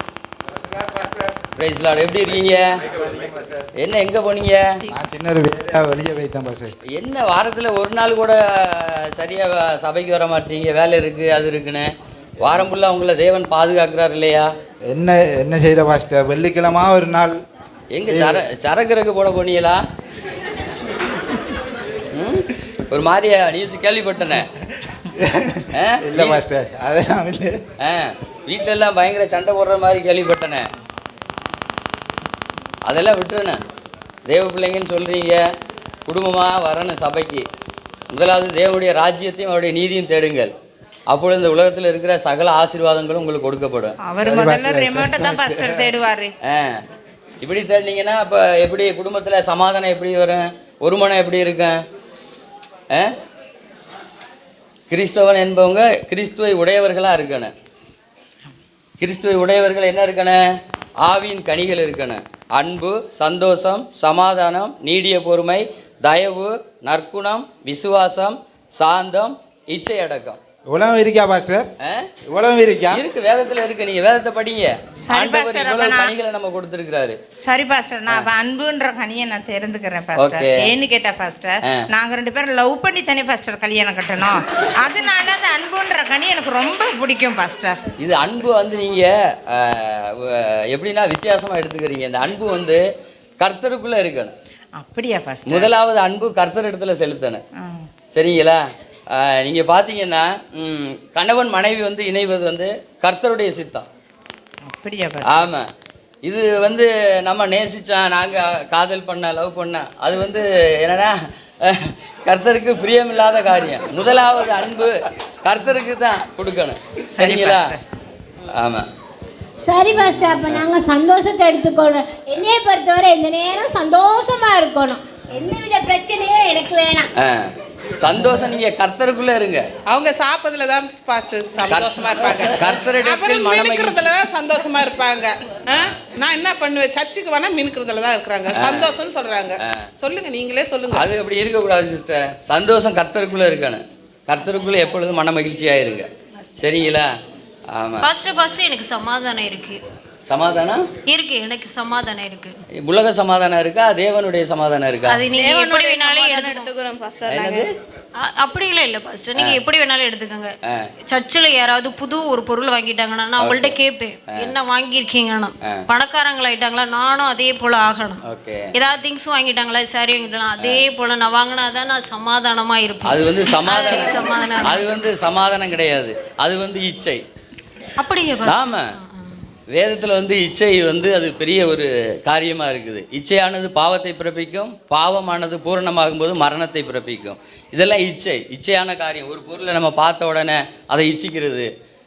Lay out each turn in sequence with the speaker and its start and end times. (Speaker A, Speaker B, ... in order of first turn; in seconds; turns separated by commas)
Speaker A: 0.5-1.4, Speaker B: 1.6-2.7, Speaker A: 2.8-3.6, Speaker B: 3.8-4.6, Speaker A: 4.9-6.7, Speaker B: 6.9-11.9, Speaker B: 12.4-14.5, Speaker A: 14.9-17.4, Speaker B: 17.9-19.8, Speaker A: 18.1-18.4, Speaker B: 22.1-24.5, Speaker A: 25.1-27.6, Speaker B: 25.7-26.4, Speaker B: 27.8-30.7, Speaker B: 32.9-33.6, Speaker B: 34.3-35.4, Speaker B: 36.0-37.5, Speaker B: 38.1-40.5, Speaker B: 41.1-44.0, Speaker C: 44.0-46.3, Speaker A: 44.2-45.9, Speaker B: 46.4-46.8, Speaker B: 47.4-51.8, Speaker B: 54.9-57.5, Speaker B: 59.0-60.5, Speaker B: 61.0-70.4, Speaker A: 70.7-71.7, Speaker B: 71.8-72.1, Speaker A: 72.3-73.0, Speaker B: 72.9-77.2, Speaker C: 75.0-76.1, Speaker C: 77.4-87.8, Speaker B: 80.2-80.7, Speaker B: 88.0-92.8, Speaker B: 93.4-94.3, Speaker C: 94.8-95.7, Speaker B: 95.5-97.4, Speaker C: 97.6-97.9, Speaker B: 98.1-103.9, Speaker C: 104.7-105.5, Speaker B: 105.2-105.7, Speaker B: 106.2-117.7, Speaker C: 117.2-117.8, Speaker B: 118.5-118.9, Speaker D: 119.6-127.1, Speaker B: 127.2-129.6, Speaker E: 129.9-141.0, Speaker B: 131.7-134.0, Speaker B: 138.6-138.9, Speaker B: 140.9-147.1, Speaker B: 147.7-148.1, Speaker F: 148.0-149.8, Speaker B: 150.3-150.9, Speaker F: 151.1-152.6, Speaker B: 152.7-155.2, Speaker F: 155.1-156.7, Speaker G: 155.3-157.7, Speaker B: 157.2-157.7, Speaker F: 158.2-168.2, Speaker B: 160.6-160.9, Speaker B: 163.4-163.8, Speaker B: 168.2-168.7, Speaker F: 168.7-174.9, Speaker B: 173.0-177.2, Speaker F: 178.0-179.4, Speaker B: 178.4-178.9, Speaker B: 179.7-191.7